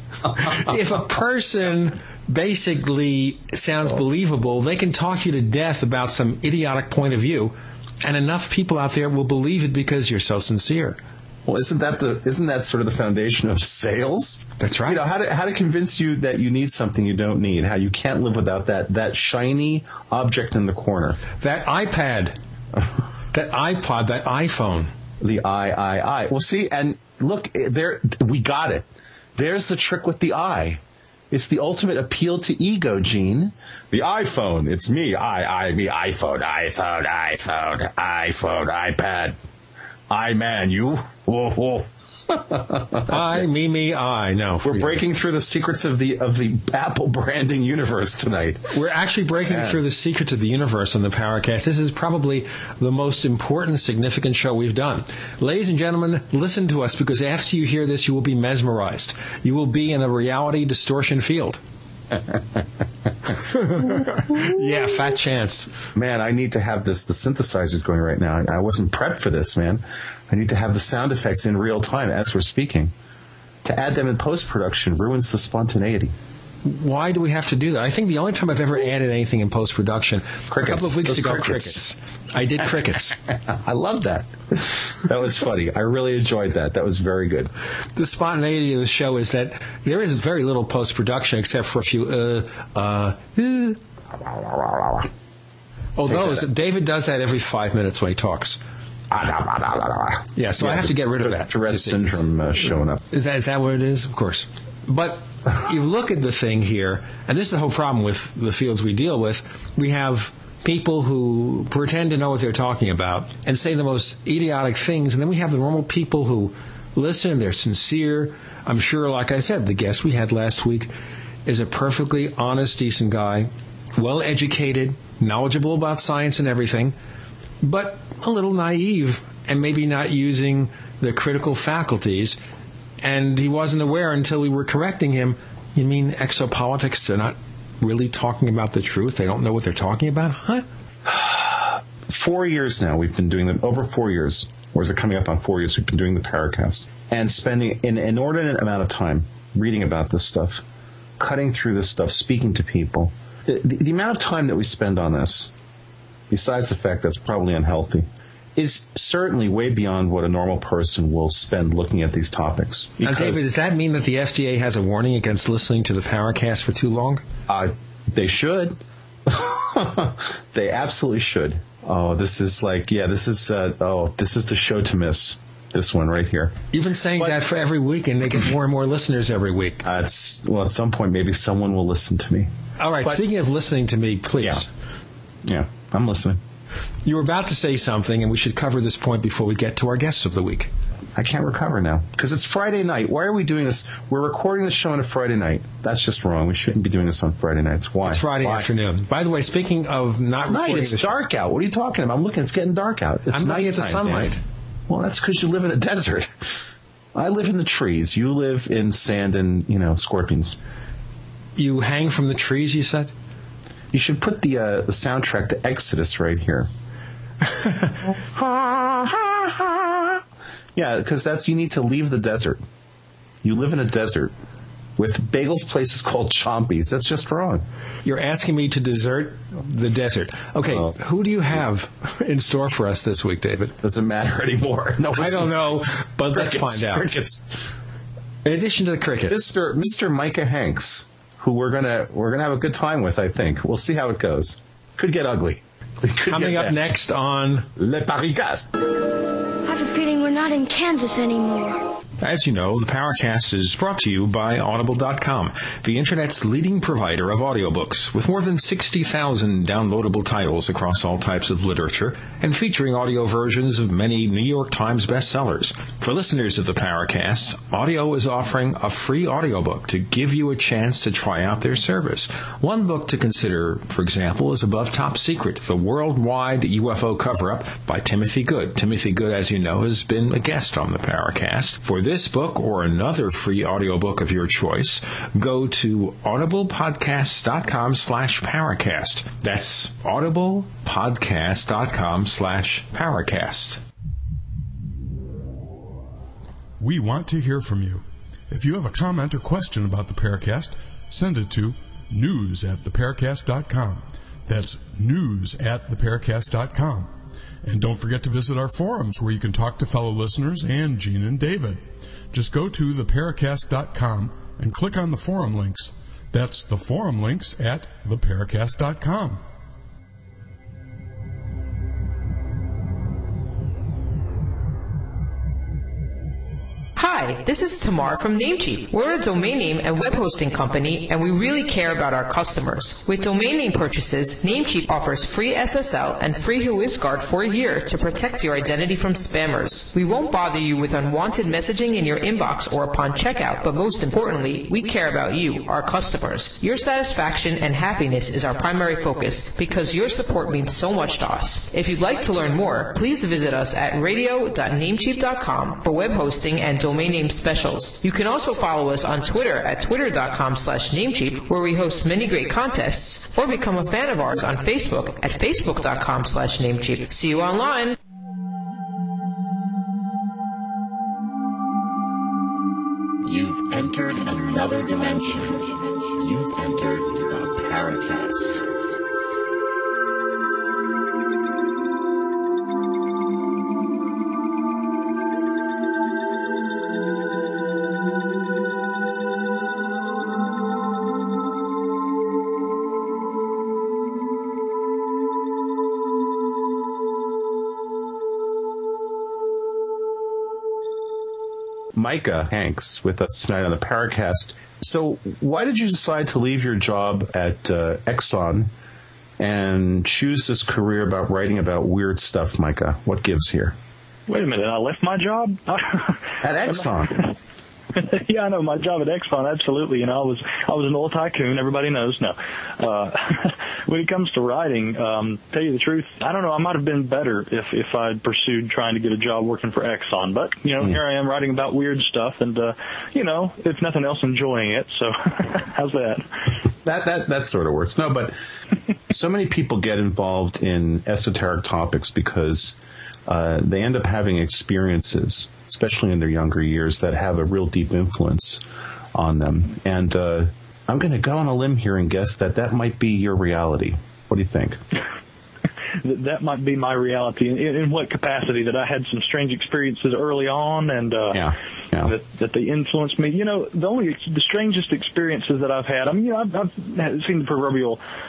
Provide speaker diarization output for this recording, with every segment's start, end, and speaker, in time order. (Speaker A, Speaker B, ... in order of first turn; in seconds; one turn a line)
Speaker A: 0.3-11.0
Speaker B: 11.5-21.2
Speaker A: 14.6-15.0
Speaker A: 21.4-22.4
Speaker A: 23.3-24.9
Speaker B: 25.2-30.8
Speaker B: 31.3-39.4
Speaker B: 40.1-43.4
Speaker A: 43.1-45.0
Speaker B: 44.6-48.7
Speaker A: 48.7-61.6
Speaker B: 49.5-49.8
Speaker A: 64.3-65.7
Speaker B: 66.0-72.9
Speaker B: 73.6-76.1
Speaker A: 76.6-83.2
Speaker B: 80.5-81.9
Speaker B: 83.5-87.5
Speaker A: 88.0-93.8
Speaker B: 94.2-95.1
Speaker A: 96.0-98.6
Speaker B: 96.1-96.5
Speaker B: 99.1-103.0
Speaker A: 100.4-102.0
Speaker A: 103.1-120.9
Speaker A: 121.5-127.0
Speaker A: 127.6-132.4
Speaker A: 133.0-140.7
Speaker B: 141.1-150.6
Speaker B: 151.2-155.5
Speaker B: 156.3-163.4
Speaker A: 163.0-167.2
Speaker B: 167.5-176.6
Speaker A: 176.7-179.8
Speaker B: 177.2-177.4
Speaker B: 179.8-182.5
Speaker A: 182.8-184.7
Speaker B: 185.4-186.4
Speaker A: 187.0-190.7
Speaker B: 191.2-198.7
Speaker A: 198.1-201.1
Speaker B: 200.5-204.3
Speaker A: 203.3-204.4
Speaker B: 204.9-206.5
Speaker B: 207.2-210.6
Speaker A: 211.6-213.1
Speaker B: 213.9-216.7
Speaker A: 217.5-217.9
Speaker B: 218.2-220.2
Speaker B: 220.8-222.6
Speaker B: 223.4-224.3
Speaker B: 225.0-227.7
Speaker A: 228.1-233.8
Speaker B: 233.8-235.8
Speaker A: 235.2-237.2
Speaker B: 236.3-237.7
Speaker A: 238.4-239.4
Speaker B: 239.3-246.8
Speaker A: 246.3-247.7
Speaker B: 247.8-248.7
Speaker C: 249.7-251.7
Speaker D: 249.8-251.4
Speaker A: 252.2-293.8
Speaker E: 296.8-307.1
Speaker E: 307.6-319.4
Speaker F: 327.0-368.0
Speaker D: 373.2-378.9
Speaker B: 401.9-408.7
Speaker B: 409.4-413.8
Speaker G: 414.3-417.3
Speaker B: 416.4-417.3
Speaker G: 417.9-436.3
Speaker B: 436.8-438.4
Speaker B: 439.1-448.6
Speaker B: 449.1-454.8
Speaker G: 456.0-461.5
Speaker B: 461.3-462.1
Speaker G: 462.0-468.0